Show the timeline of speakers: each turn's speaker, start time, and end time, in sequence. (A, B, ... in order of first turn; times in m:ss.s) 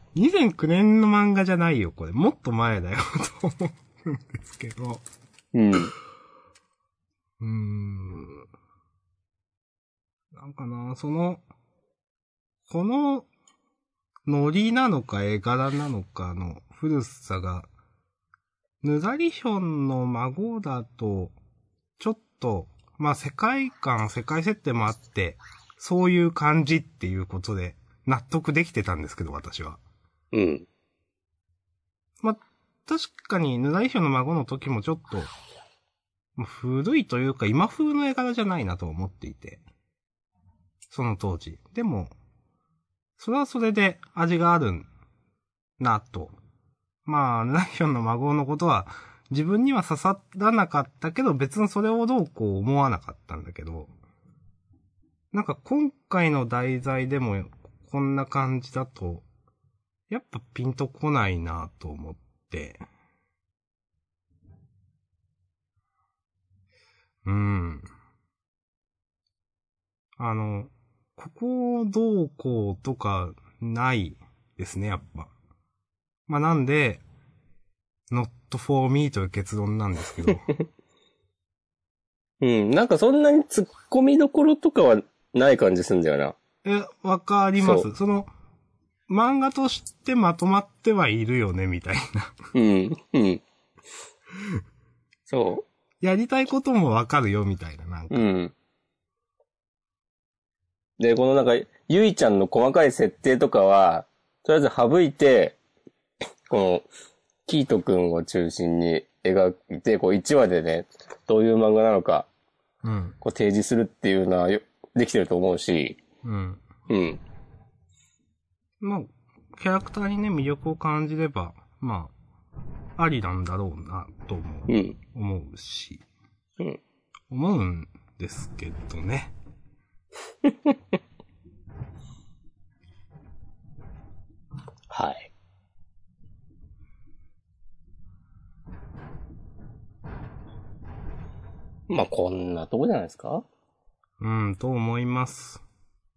0:00.1-0:05.0 A
0:05.5-0:05.9 B
0:07.4-0:08.4 A
0:10.3-0:11.4 A
0:12.7-0:13.3 A
0:14.3-0:17.7 A
0:18.8-0:21.4 A
0:22.0-0:29.8 A
0:30.3-0:30.7 B
0:32.2-0:35.3 A
0:36.4-0:39.6 A
0:40.9-0:42.1 A
0:43.2-0:44.9 A
0:45.8-0:46.4 A
0:47.0-0:53.9 A
0:55.3-0:59.2 A
1:00.1-1:02.8 A
1:07.2-1:07.9 A
1:10.2-1:15.3 A
1:16.3-1:17.0 A
1:18.1-1:20.5 A
1:22.4-1:26.4 B
1:26.6-1:28.3 A
1:27.6-1:27.9 B
1:29.1-1:32.4 A
1:32.5-1:33.4 B
1:35.3-1:35.6 B
1:36.0-1:38.2 A
1:38.1-1:38.5 B
1:41.0-1:45.6 B
1:46.5-1:46.8 B
1:47.4-1:52.3 B
1:52.8-1:53.2 A
1:53.2-1:56.0 B
1:56.2-1:56.6 A
1:56.9-1:57.2 B
1:58.8-2:02.1 A
2:03.0-2:06.0 A
2:04.7-2:05.0 B
2:07.3-2:09.3 A
2:14.9-2:15.3 B
2:21.9-2:23.4 B
2:24.2-2:25.6 A